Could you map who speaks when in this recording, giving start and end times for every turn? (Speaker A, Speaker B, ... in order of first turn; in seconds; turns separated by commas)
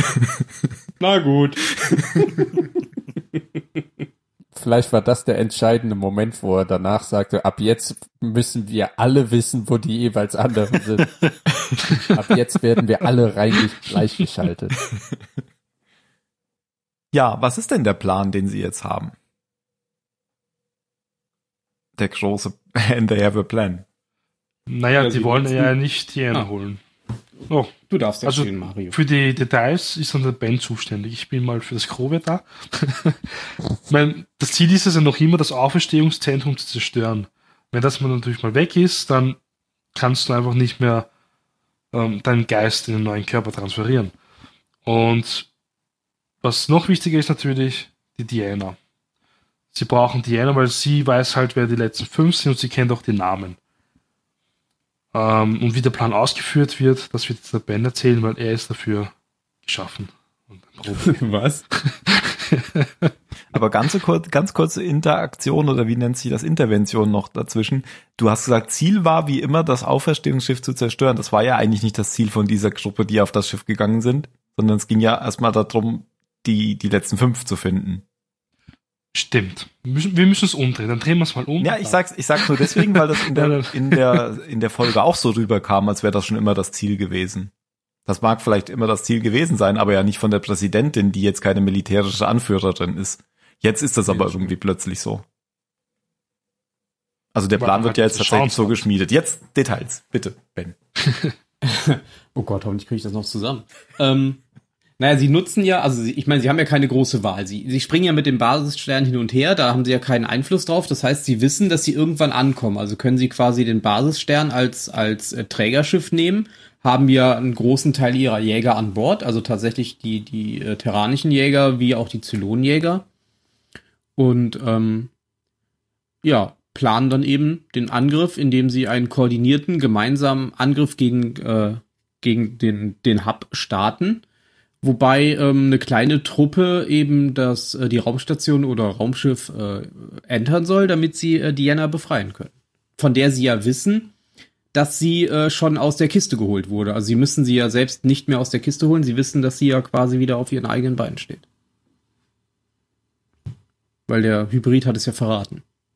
Speaker A: 1.0-2.8, Speaker B: 4.5-11.2, Speaker B: 12.1-14.8, Speaker C: 17.1-19.1, Speaker C: 22.0-23.8, Speaker D: 24.7-26.8, Speaker A: 25.0-25.7, Speaker D: 27.5-33.2, Speaker A: 27.9-29.0, Speaker D: 33.9-39.4, Speaker D: 39.9-41.1, Speaker D: 41.9-44.1, Speaker D: 44.8-45.5, Speaker D: 46.4-48.8, Speaker D: 49.7-53.6, Speaker D: 55.1-59.1, Speaker D: 59.6-61.2, Speaker A: 60.9-61.6, Speaker D: 61.8-63.1, Speaker C: 63.5-78.0, Speaker D: 79.1-84.2, Speaker C: 81.6-87.5, Speaker C: 88.1-95.2, Speaker A: 94.1-94.5, Speaker C: 97.3-100.8, Speaker D: 97.6-98.8, Speaker A: 101.6-104.4, Speaker A: 105.0-123.0, Speaker A: 124.2-125.1, Speaker A: 126.2-134.2, Speaker A: 134.8-144.1, Speaker A: 144.7-151.4, Speaker A: 154.1-155.6